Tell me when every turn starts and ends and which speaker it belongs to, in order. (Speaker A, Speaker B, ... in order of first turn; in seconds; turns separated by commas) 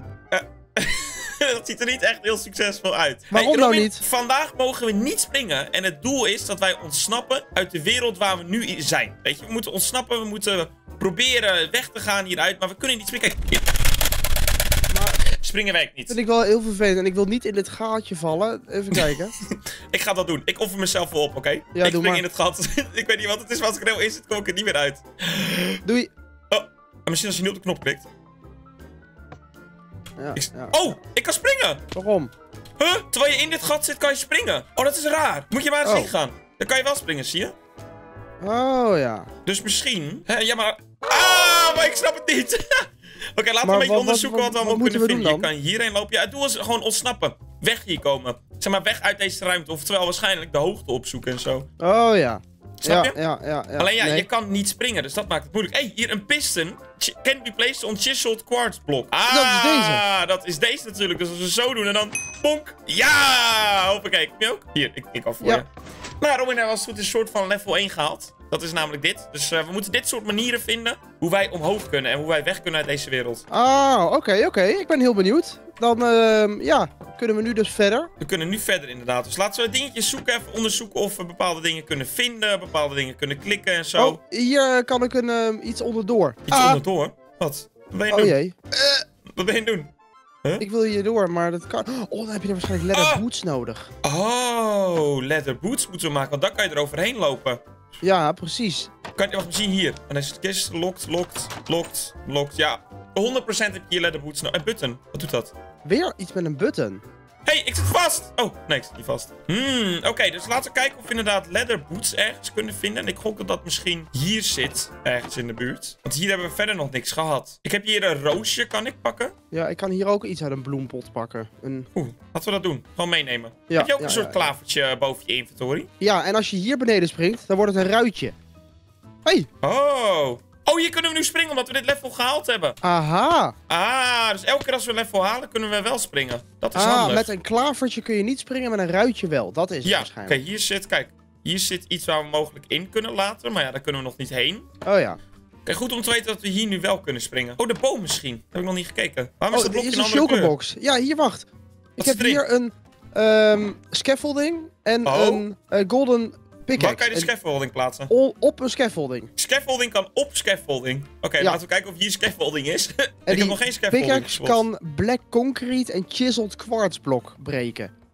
Speaker A: 0.3-13.6, Speaker B: 3.3-4.0, Speaker B: 14.9-15.2, Speaker A: 15.3-16.2, Speaker B: 16.1-19.3, Speaker A: 18.9-25.8, Speaker B: 21.7-22.2, Speaker B: 25.8-26.1, Speaker A: 26.5-28.0, Speaker B: 30.2-30.7, Speaker A: 30.3-31.8, Speaker B: 31.9-32.3, Speaker A: 32.8-37.5, Speaker B: 35.8-36.1, Speaker B: 38.4-39.3, Speaker A: 39.5-51.7, Speaker B: 43.6-45.5, Speaker B: 51.8-54.2, Speaker A: 52.8-53.1, Speaker A: 53.8-65.7, Speaker B: 59.3-60.0, Speaker A: 66.2-73.4, Speaker B: 73.5-78.1, Speaker A: 78.2-84.2, Speaker B: 84.0-86.8, Speaker A: 86.5-88.3, Speaker B: 88.1-89.0, Speaker A: 89.2-89.9, Speaker B: 90.6-93.9, Speaker A: 92.9-93.2, Speaker A: 94.0-97.6, Speaker B: 98.0-98.9, Speaker A: 99.1-105.5, Speaker B: 105.8-107.0, Speaker A: 107.4-119.3, Speaker B: 119.5-121.9, Speaker A: 121.9-125.9, Speaker B: 123.7-124.5, Speaker B: 126.0-128.3, Speaker A: 129.6-132.8, Speaker B: 132.8-133.6, Speaker A: 133.7-137.3, Speaker B: 136.8-140.4, Speaker A: 139.8-144.7, Speaker B: 144.8-145.2, Speaker A: 145.6-150.5, Speaker B: 149.5-157.3, Speaker A: 152.0-152.4, Speaker A: 155.0-155.4, Speaker A: 156.7-158.1, Speaker B: 158.1-159.3, Speaker A: 159.3-164.6, Speaker B: 163.3-167.9